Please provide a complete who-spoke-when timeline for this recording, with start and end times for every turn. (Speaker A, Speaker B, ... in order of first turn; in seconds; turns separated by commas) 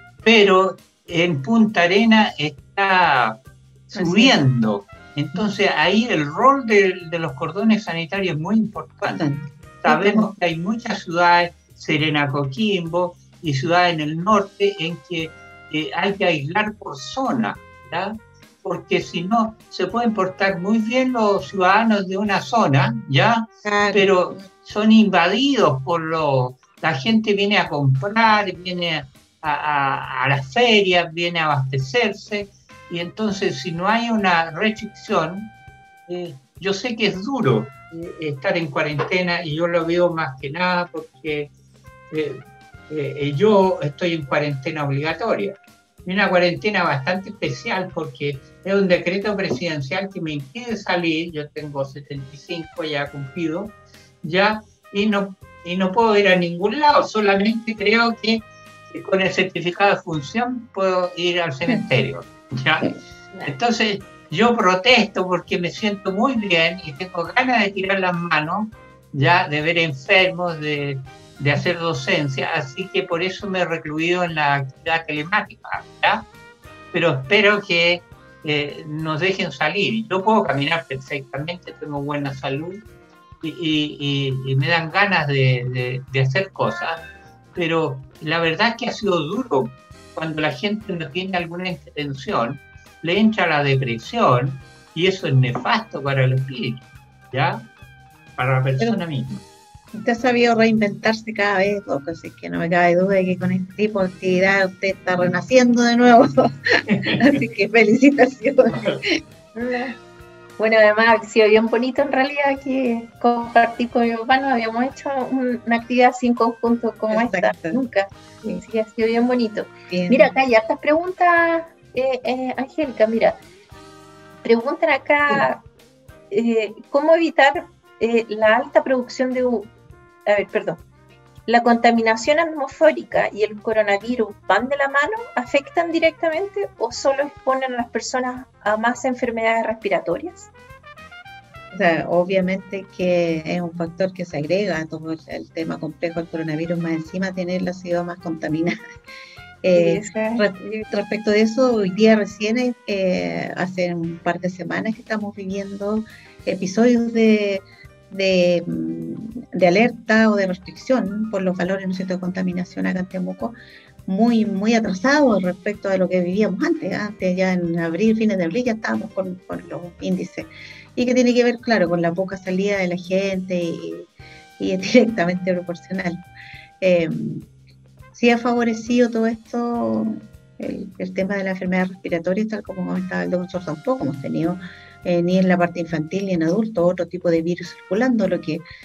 Speaker A: 0.2-3.4, Speaker A: 3.9-9.3, Speaker B: 4.0-4.4, Speaker B: 9.2-10.3, Speaker A: 9.8-35.5, Speaker B: 23.6-24.4, Speaker A: 36.1-41.5, Speaker A: 42.1-62.9, Speaker A: 63.5-76.3, Speaker A: 76.9-82.8, Speaker A: 83.4-87.0, Speaker A: 87.5-97.6, Speaker A: 98.4-99.4, Speaker B: 100.0-109.2, Speaker A: 107.0-107.3, Speaker C: 109.5-110.0, Speaker C: 110.6-123.4, Speaker B: 117.1-117.8, Speaker B: 119.9-120.3, Speaker C: 124.4-125.6, Speaker C: 126.3-129.7, Speaker C: 130.3-130.8, Speaker C: 131.5-140.5, Speaker B: 141.7-148.8, Speaker B: 149.6-163.5, Speaker C: 149.7-150.4, Speaker B: 164.1-174.1, Speaker B: 174.6-176.2, Speaker B: 176.8-177.5, Speaker B: 178.1-188.6